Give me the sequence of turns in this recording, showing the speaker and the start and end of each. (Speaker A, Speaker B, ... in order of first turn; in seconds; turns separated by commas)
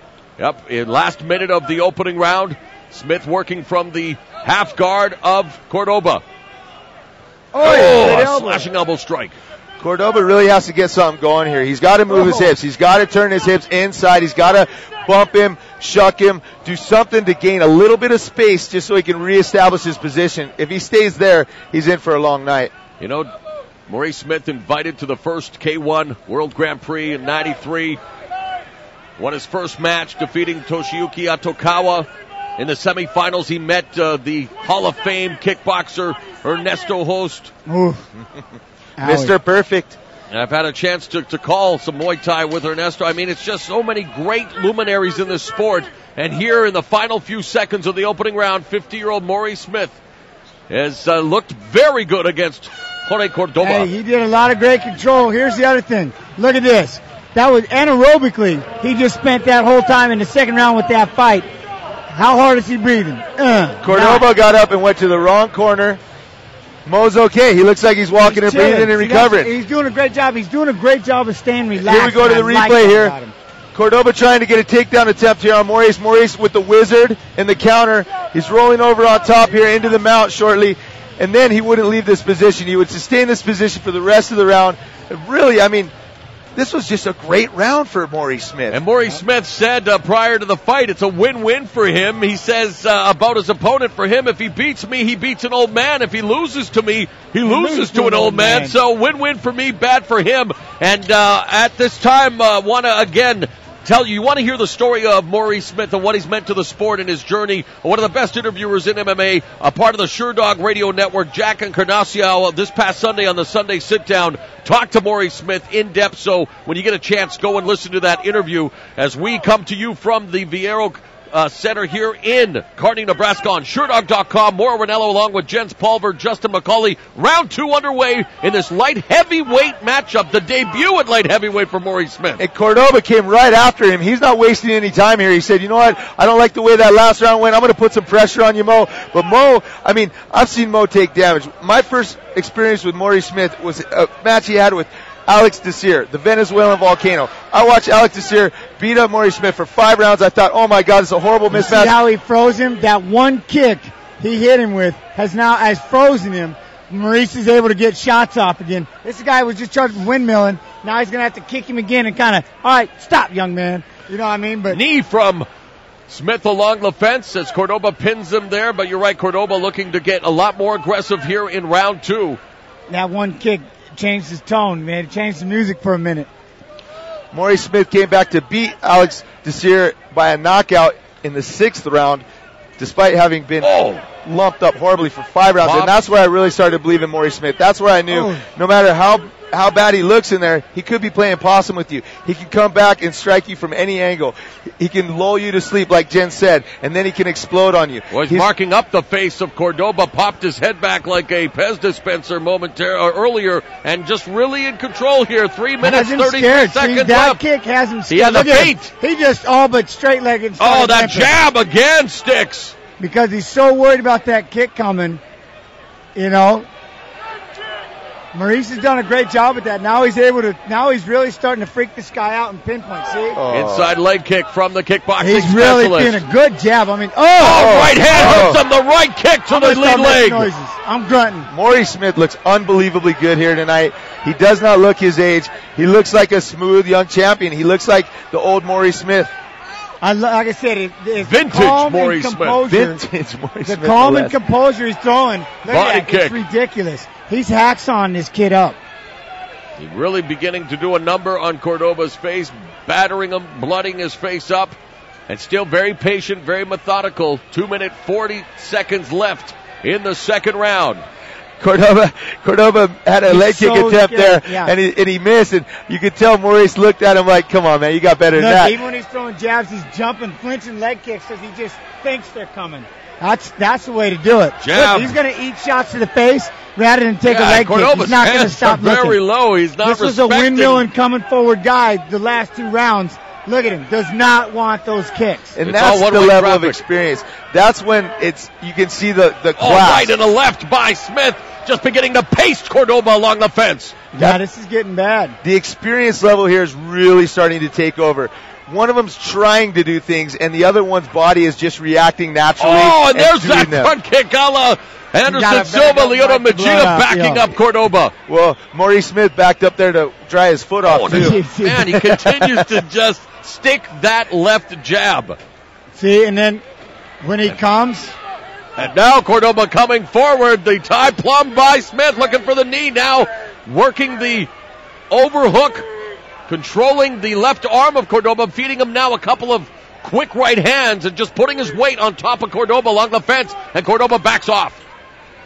Speaker A: 0.4-6.2, Speaker B: 7.5-8.7, Speaker A: 7.6-9.3, Speaker C: 9.8-22.7, Speaker B: 12.1-12.5, Speaker A: 23.0-23.3, Speaker A: 23.9-28.0, Speaker A: 29.2-37.5, Speaker B: 37.6-38.0, Speaker B: 39.0-39.4, Speaker C: 39.0-40.0, Speaker A: 40.3-50.0, Speaker A: 50.7-53.9, Speaker B: 53.6-61.5, Speaker B: 62.1-64.3, Speaker C: 63.8-66.0, Speaker C: 66.8-69.5, Speaker B: 68.1-73.3, Speaker C: 71.8-73.1, Speaker C: 73.7-85.9, Speaker C: 86.5-88.8, Speaker A: 88.7-132.4, Speaker B: 97.4-98.8, Speaker C: 132.4-152.0, Speaker B: 151.5-164.8, Speaker A: 164.7-165.5, Speaker A: 166.1-172.4, Speaker B: 172.9-176.3, Speaker C: 177.3-182.2, Speaker C: 182.8-198.5, Speaker A: 183.6-184.0, Speaker A: 185.6-186.0, Speaker B: 188.1-188.4, Speaker A: 198.1-207.4, Speaker B: 205.8-211.3, Speaker A: 208.1-208.9, Speaker A: 210.6-212.7, Speaker B: 213.0-215.2, Speaker B: 216.1-216.7, Speaker B: 218.3-223.4, Speaker C: 223.3-223.9, Speaker A: 223.5-226.2, Speaker B: 225.2-228.4, Speaker A: 227.4-230.5, Speaker C: 227.5-228.6, Speaker B: 229.5-231.5, Speaker C: 231.5-239.3, Speaker B: 240.0-243.0, Speaker A: 241.2-242.6, Speaker C: 242.7-244.4, Speaker B: 243.6-248.8, Speaker A: 245.7-246.4, Speaker A: 249.8-254.8, Speaker A: 255.3-261.0, Speaker C: 261.6-268.8, Speaker B: 263.2-264.7, Speaker B: 268.3-279.2, Speaker A: 274.6-275.1, Speaker A: 277.2-280.9, Speaker B: 279.8-285.6, Speaker C: 285.5-290.1, Speaker A: 285.6-286.8, Speaker A: 289.6-293.9, Speaker B: 294.1-295.4, Speaker C: 295.4-303.9, Speaker A: 302.6-308.1, Speaker B: 305.2-307.5, Speaker C: 308.3-312.6, Speaker A: 310.8-315.4, Speaker B: 311.1-311.9, Speaker B: 315.9-316.6, Speaker B: 317.2-318.1, Speaker A: 318.8-324.5, Speaker A: 325.1-325.9, Speaker A: 326.5-334.8